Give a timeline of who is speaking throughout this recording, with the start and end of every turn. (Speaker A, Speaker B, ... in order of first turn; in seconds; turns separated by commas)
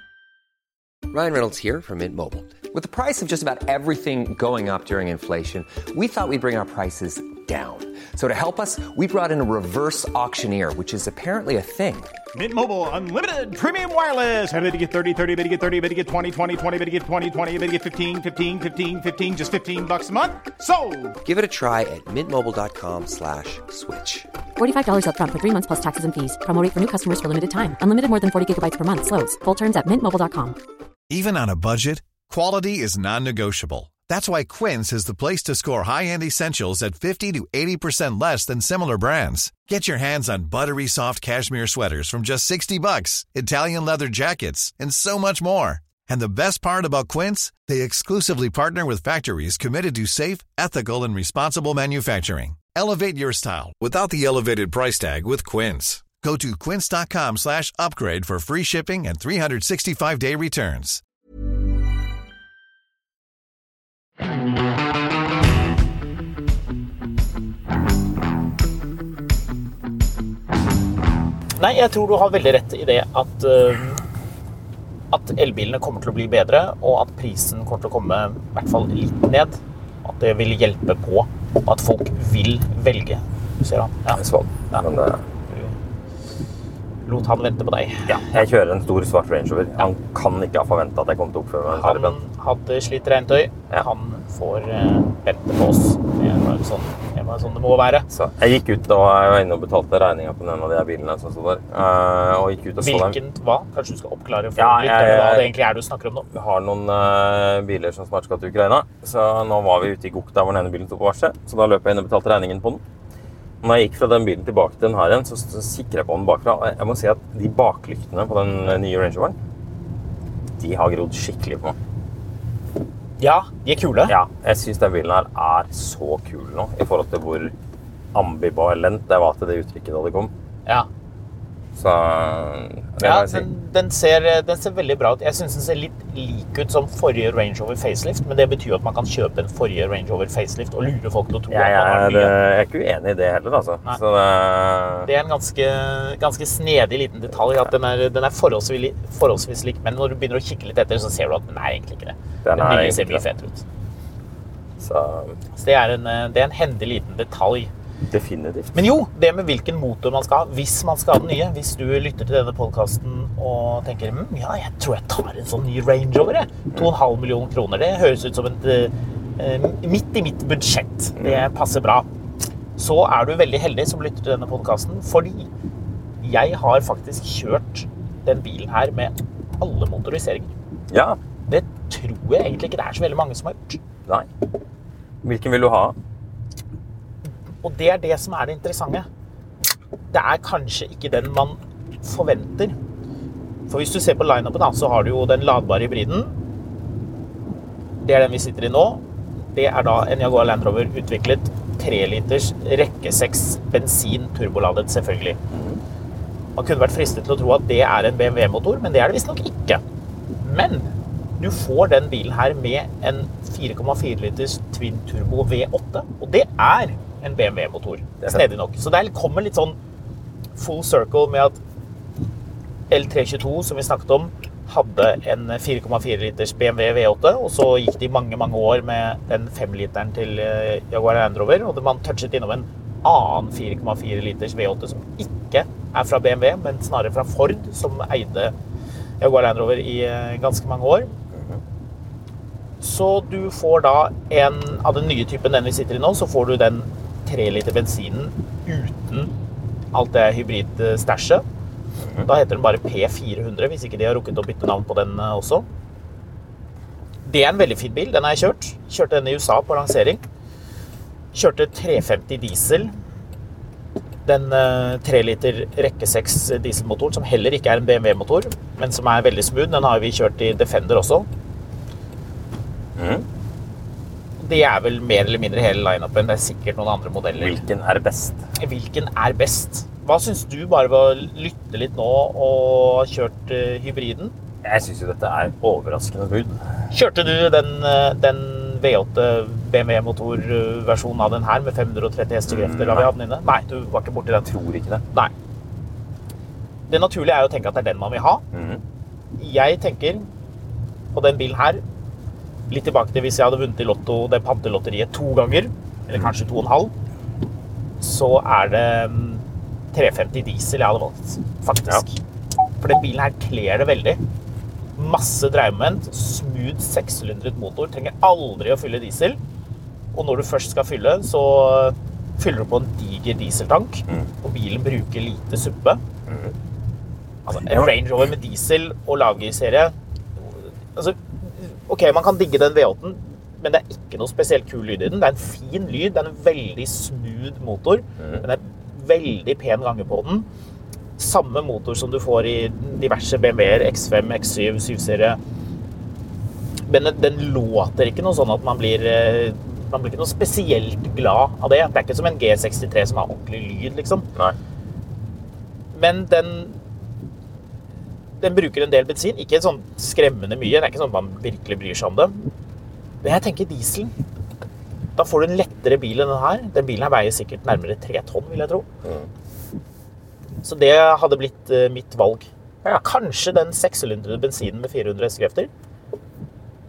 Speaker A: 1.1-12.1, Speaker B: 12.3-21.2, Speaker A: 21.2-24.3, Speaker C: 24.6-30.6, Speaker D: 31.1-61.0, Speaker E: 71.6-74.0, Speaker E: 75.1-84.2, Speaker F: 84.1-85.2, Speaker E: 85.5-85.7, Speaker E: 87.0-88.4, Speaker F: 88.1-92.2, Speaker E: 91.7-98.1, Speaker F: 98.1-103.2, Speaker E: 102.8-106.3, Speaker F: 104.5-105.5, Speaker F: 106.3-112.8, Speaker F: 113.6-119.3, Speaker F: 120.6-121.8, Speaker E: 123.2-124.1, Speaker F: 124.1-127.5, Speaker F: 128.1-130.3, Speaker F: 131.7-133.5, Speaker E: 133.0-142.3, Speaker F: 141.5-145.1, Speaker E: 145.0-153.6, Speaker F: 152.4-153.2, Speaker F: 154.8-155.4, Speaker E: 155.5-157.7, Speaker F: 158.1-158.8, Speaker E: 158.7-172.1, Speaker F: 171.2-171.5, Speaker E: 172.8-175.5, Speaker E: 176.2-180.5, Speaker F: 180.9-181.2, Speaker E: 181.5-183.8, Speaker F: 185.2-185.9, Speaker E: 187.2-189.1, Speaker E: 190.1-192.8, Speaker E: 193.7-196.3, Speaker E: 198.0-199.0, Speaker E: 199.5-205.4, Speaker F: 205.5-205.8, Speaker E: 206.6-209.8, Speaker E: 210.4-219.8, Speaker E: 220.6-221.6, Speaker E: 222.9-238.5, Speaker E: 239.2-241.1, Speaker F: 241.3-241.6, Speaker E: 242.8-249.3, Speaker E: 249.9-251.4, Speaker E: 252.2-255.7, Speaker E: 257.2-260.2, Speaker E: 261.3-262.9, Speaker E: 264.2-271.3, Speaker F: 272.9-273.2, Speaker E: 274.4-277.6, Speaker F: 277.3-278.4, Speaker E: 278.6-284.3, Speaker F: 284.6-286.6, Speaker E: 286.9-294.5, Speaker F: 292.5-293.1, Speaker F: 294.4-295.0, Speaker E: 296.9-298.4, Speaker F: 298.5-298.8, Speaker E: 299.4-300.3, Speaker E: 301.1-301.8, Speaker E: 302.7-306.9, Speaker E: 308.0-312.2, Speaker E: 312.8-314.2, Speaker E: 314.9-319.4, Speaker E: 320.1-326.0, Speaker F: 326.3-326.5, Speaker E: 327.5-340.5, Speaker F: 327.6-327.9, Speaker E: 341.2-345.4, Speaker E: 346.9-354.3, Speaker E: 355.9-356.8, Speaker E: 358.4-362.4, Speaker E: 363.2-364.1, Speaker E: 365.2-368.9, Speaker F: 369.0-369.3, Speaker E: 370.6-372.5, Speaker E: 373.0-375.7